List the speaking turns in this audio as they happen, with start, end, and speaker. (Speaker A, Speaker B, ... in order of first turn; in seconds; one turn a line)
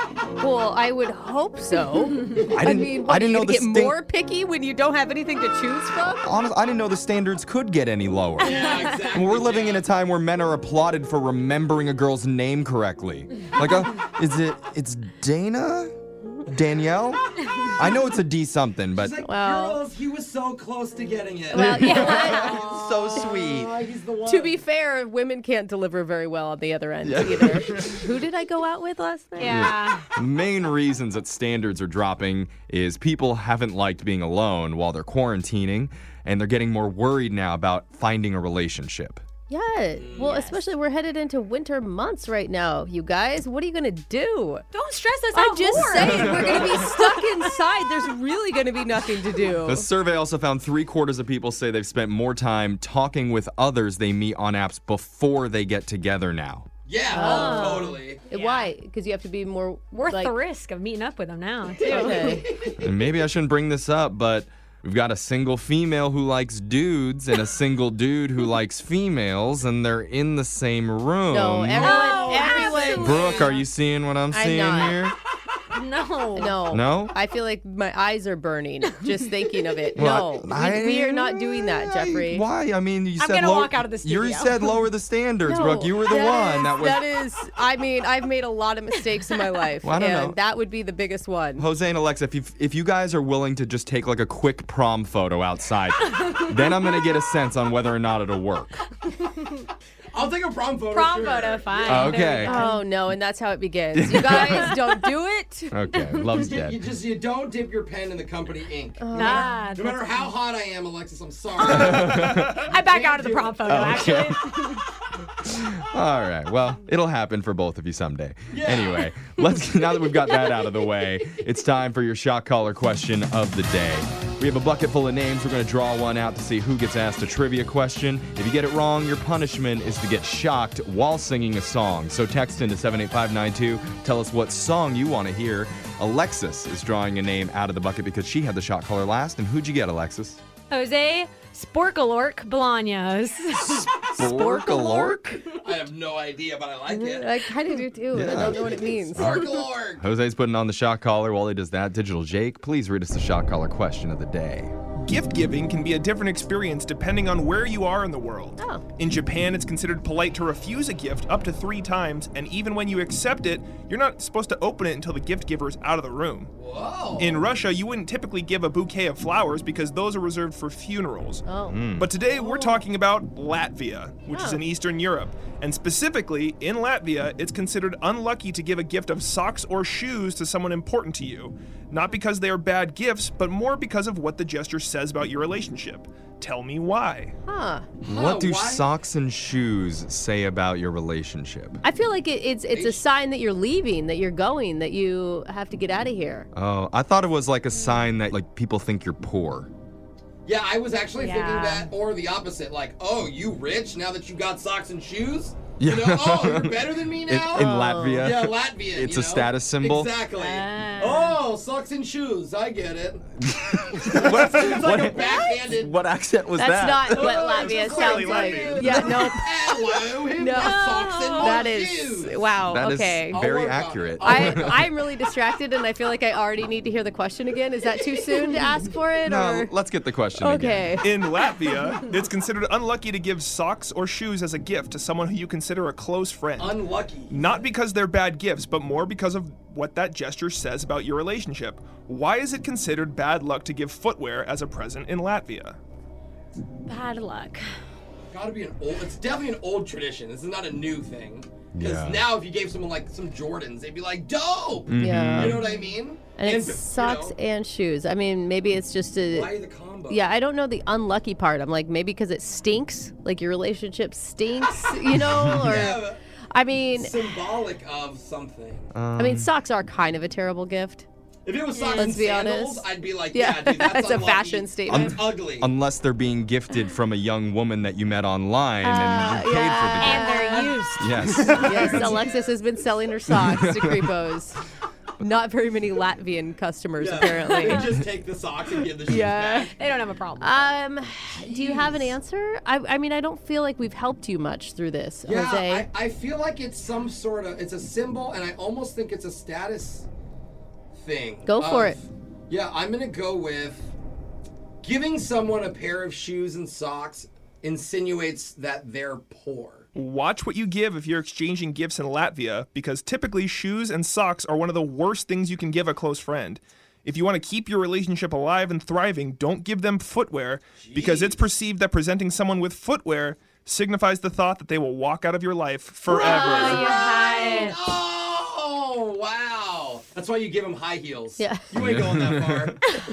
Speaker A: 0.4-6.2
Speaker B: 2.4-4.0
Speaker B: 6.2-15.9
Speaker C: 8.4-9.9
Speaker B: 16.4-17.2
Speaker B: 17.8-19.2
Speaker C: 18.9-24.6
Speaker A: 19.2-19.8
Speaker A: 21.5-22.6
Speaker B: 21.5-23.7
Speaker D: 21.8-22.6
Speaker A: 24.3-29.7
Speaker B: 27.0-28.0
Speaker D: 29.4-30.0
Speaker B: 29.4-39.2
Speaker A: 39.5-44.6
Speaker C: 40.0-40.4
Speaker D: 40.2-40.6
Speaker D: 44.7-47.2
Speaker A: 45.3-49.9
Speaker B: 45.8-46.9
Speaker B: 49.6-56.7
Speaker C: 56.9-58.2
Speaker D: 57.1-58.7
Speaker A: 57.1-60.4
Speaker D: 59.9-62.5
Speaker C: 61.8-62.9
Speaker A: 61.8-62.5
Speaker B: 62.8-72.0
Speaker A: 71.3-73.6
Speaker D: 71.8-73.2
Speaker C: 71.8-73.6
Speaker B: 73.0-75.2
Speaker A: 74.3-75.0
Speaker D: 75.7-76.6
Speaker A: 76.4-82.5
Speaker B: 76.7-77.1
Speaker B: 80.0-87.0
Speaker D: 83.2-84.5
Speaker A: 85.4-91.7
Speaker B: 89.8-90.4
Speaker B: 91.6-98.8
Speaker C: 100.1-102.2
Speaker D: 100.9-102.9
Speaker B: 101.9-102.6
Speaker A: 102.4-105.7
Speaker B: 103.9-105.1
Speaker B: 105.7-106.8
Speaker C: 106.3-114.2
Speaker A: 109.0-109.6
Speaker D: 109.1-110.1
Speaker D: 111.6-114.8
Speaker B: 111.7-112.7
Speaker B: 113.7-114.4
Speaker B: 115.4-140.4
Speaker C: 118.5-119.1
Speaker D: 140.7-143.9
Speaker B: 144.0-145.4
Speaker A: 144.2-145.4
Speaker C: 145.6-147.6
Speaker A: 146.9-149.5
Speaker B: 148.1-149.4
Speaker C: 148.2-150.1
Speaker B: 150.0-154.7
Speaker E: 155.0-166.5
Speaker A: 158.6-158.8
Speaker C: 166.6-167.4
Speaker E: 167.2-187.3
Speaker A: 171.5-172.8
Speaker B: 171.7-172.1
Speaker A: 174.3-174.6
Speaker A: 187.5-187.9
Speaker C: 188.0-188.9
Speaker B: 188.1-191.8
Speaker A: 191.8-196.5
Speaker C: 192.7-193.1
Speaker B: 196.5-199.7
Speaker C: 200.4-213.3
Speaker D: 201.2-201.9
Speaker B: 205.8-210.1
Speaker A: 207.5-208.3
Speaker D: 210.3-211.4
Speaker B: 213.4-217.4
Speaker C: 214.0-216.0
Speaker A: 216.6-219.5
Speaker C: 217.1-222.5
Speaker E: 217.4-219.1
Speaker B: 218.9-219.4
Speaker A: 220.3-223.4
Speaker D: 220.8-221.4
Speaker B: 222.7-224.9
Speaker C: 223.3-224.8
Speaker A: 224.2-229.7
Speaker B: 229.2-231.1
Speaker A: 230.4-231.1
Speaker E: 231.0-245.8
Speaker C: 236.6-237.6
Speaker D: 246.9-247.6
Speaker C: 248.3-257.4
Speaker B: 251.7-252.3
Speaker B: 254.9-255.6
Speaker A: 255.0-255.6
Speaker A: 256.4-259.5
Speaker C: 259.3-260.3
Speaker A: 260.1-267.3
Speaker B: 265.3-265.9
Speaker C: 265.6-266.2
Speaker C: 266.9-268.9
Speaker B: 268.9-269.5
Speaker A: 269.2-271.1
Speaker C: 271.4-275.7
Speaker D: 271.7-272.2
Speaker A: 271.9-275.2
Speaker B: 274.9-280.3
Speaker A: 278.8-280.8
Speaker D: 280.0-281.1
Speaker B: 281.0-282.1
Speaker C: 281.4-282.2
Speaker A: 281.6-284.6
Speaker B: 283.4-284.1
Speaker A: 285.2-287.9
Speaker C: 287.0-289.8
Speaker D: 287.3-287.9
Speaker A: 289.1-289.7
Speaker D: 289.7-290.7
Speaker A: 290.4-295.9
Speaker C: 291.3-292.2
Speaker C: 295.2-300.1
Speaker C: 300.9-303.9
Speaker A: 301.5-302.0
Speaker C: 304.8-309.9
Speaker E: 309.9-326.9
Speaker C: 320.8-321.4
Speaker A: 326.1-327.7
Speaker D: 326.1-327.8
Speaker C: 326.3-332.8
Speaker A: 331.4-331.7
Speaker B: 331.8-332.8